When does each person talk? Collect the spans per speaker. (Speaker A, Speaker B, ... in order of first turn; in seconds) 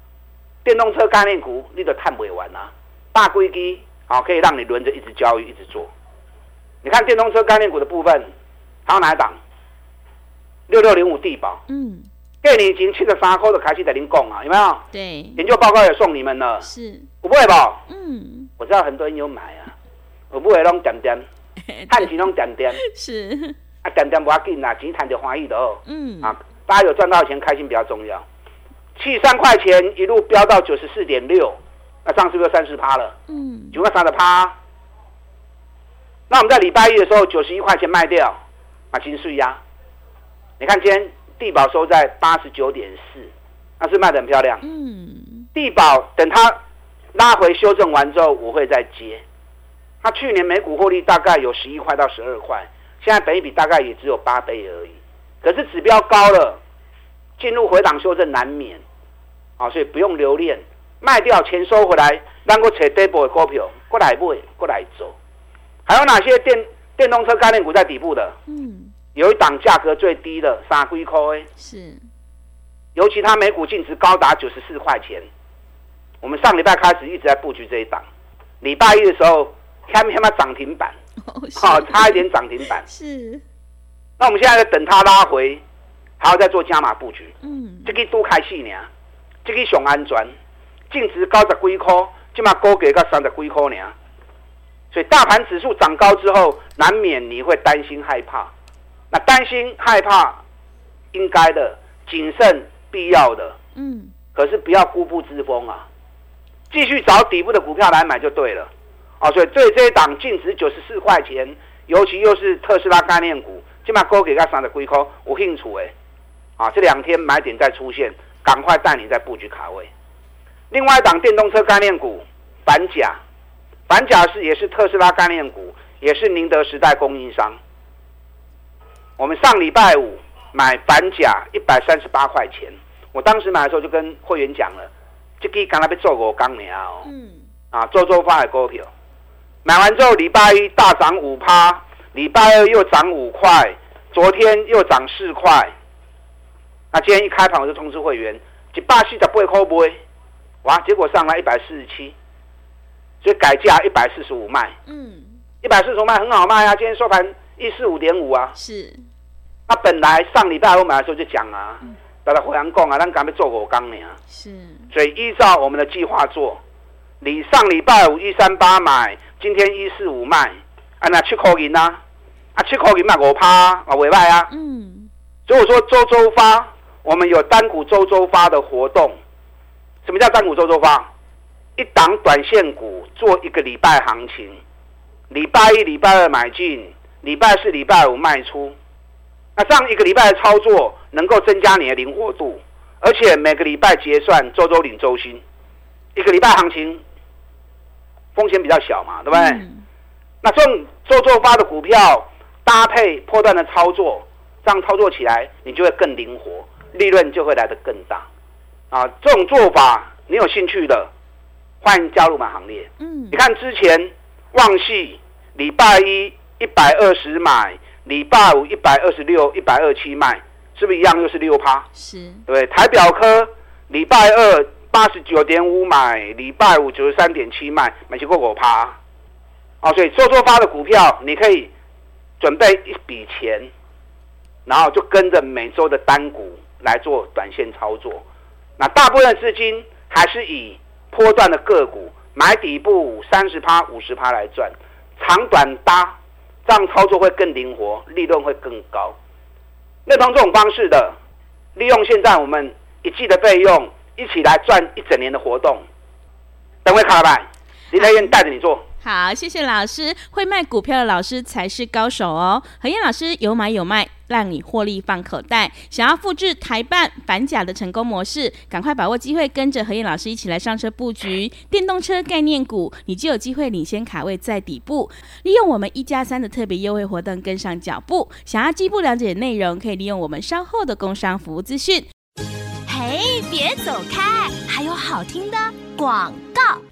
Speaker A: 0.6-5.9, 6.8-8.3, 8.8-9.4, 10.7-11.6, 12.4-14.8, 15.4-16.7, 17.2-17.8, 18.6-19.7, 20.3-21.2, 21.9-22.8, 23.8-28.2, 29.0-33.2, 33.7-34.5, 36.3-38.4, 38.9-39.6, 40.6-44.6, 45.5-46.6, 47.1-49.2, 50.0-56.6, 57.4-58.8, 59.6-65.1, 65.8-68.4, 69.1-71.5, 72.9-75.3, 76.2-78.0, 78.6-80.9, 81.6-82.8, 84.2-85.6, 86.2-87.3, 87.8-88.9, 89.4-90.3, 90.9-93.9, 94.9-98.5, 99.1-100.4, 101.1-103.6, 104.3-105.9, 106.7-115.9, 116.6-119.9, 120.7-123.2, 123.9-127.6, 129.2-134.9, 135.4-137.1, 137.7-138.9, 139.6-145.7, 146.9-150.0, 150.6-152.1, 153.2-154.8, 155.6-158.5, 159.7-164.2, 164.9-166.6, 167.2-172.0, 172.6-174.5, 175.5-179.2, 180.0-181.1, 181.8-184.6, 185.3-188.7, 189.6-195.4, 196.1-197.0, 198.3-199.6, 200.4-208.2, 208.9-211.1, 211.8-221.8, 222.5-229.0, 229.8-231.7, 232.4-233.7, 234.7-238.2, 238.8-249.2, 250.1-251.2, 251.8-255.8, 256.8-258.8
Speaker B: 11.7-12.1, 14.9-15.4, 16.6-17.1, 17.9-18.5, 21.7-22.1, 22.8-23.5, 25.9-26.3, 33.3-33.8, 44.6-45.5, 68.5-68.9, 71.6-72.0, 81.2-82.2, 82.8-83.4, 87.4-88.0, 103.7-104.1, 137.0-137.4, 154.9-155.4, 158.6-159.0, 164.3-164.9, 174.5-175.1, 199.3-199.8, 213.0-213.4, 221.9-222.4, 257.9-258.4, 259.0-282.1
Speaker C: 282.9-286.8